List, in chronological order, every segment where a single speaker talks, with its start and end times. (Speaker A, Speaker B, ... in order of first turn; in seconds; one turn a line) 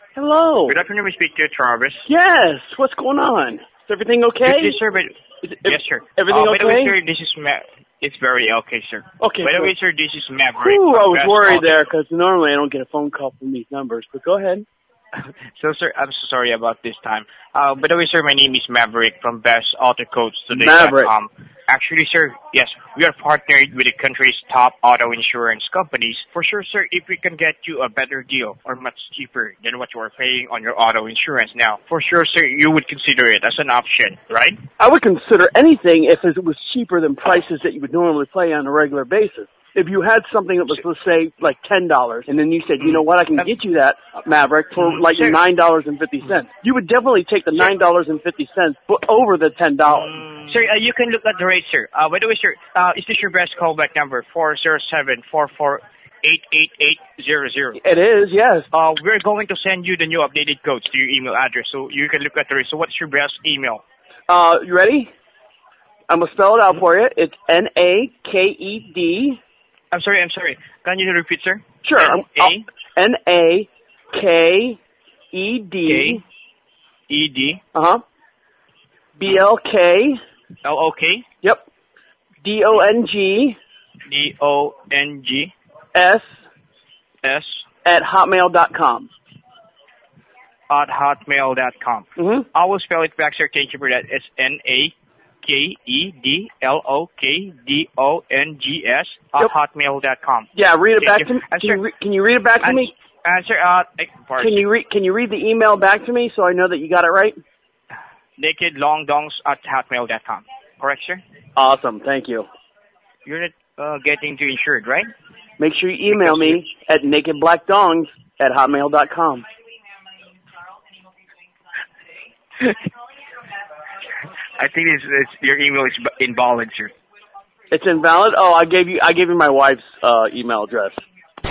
Speaker A: 0.1-0.8
Speaker B: 0.7-2.1
Speaker A: 2.1-4.8
Speaker B: 4.4-11.7
Speaker A: 5.4-6.9
Speaker A: 9.2-9.7
Speaker A: 10.6-14.7
Speaker B: 15.2-34.6
Speaker A: 20.5-21.1
Speaker A: 34.8-50.2
Speaker B: 42.8-43.5
Speaker B: 44.8-45.4
Speaker B: 49.9-57.8
Speaker A: 57.8-58.7
Speaker B: 58.7-63.8
Speaker A: 64.3-65.1
Speaker A: 66.1-69.4
Speaker B: 69.9-72.7
Speaker A: 71.8-74.8
Speaker A: 75.3-76.2
Speaker B: 75.8-76.2
Speaker B: 77.1-77.6
Speaker A: 77.7-78.0
Speaker A: 79.2-80.2
Speaker B: 80.6-81.2
Speaker A: 82.4-83.5
Speaker B: 84.1-85.5
Speaker A: 85.9-86.2
Speaker B: 87.2-87.6
Speaker A: 87.8-89.1
Speaker B: 90.7-101.8
Speaker A: 92.2-92.5
Speaker A: 100.5-102.9
Speaker B: 102.6-104.6
Speaker A: 104.4-107.4
Speaker B: 108.4-111.2
Speaker A: 111.5-112.5
Speaker B: 113.2-115.1
Speaker A: 115.6-119.5
Speaker B: 116.1-116.6
Speaker B: 124.6-126.9
Speaker A: 127.7-131.0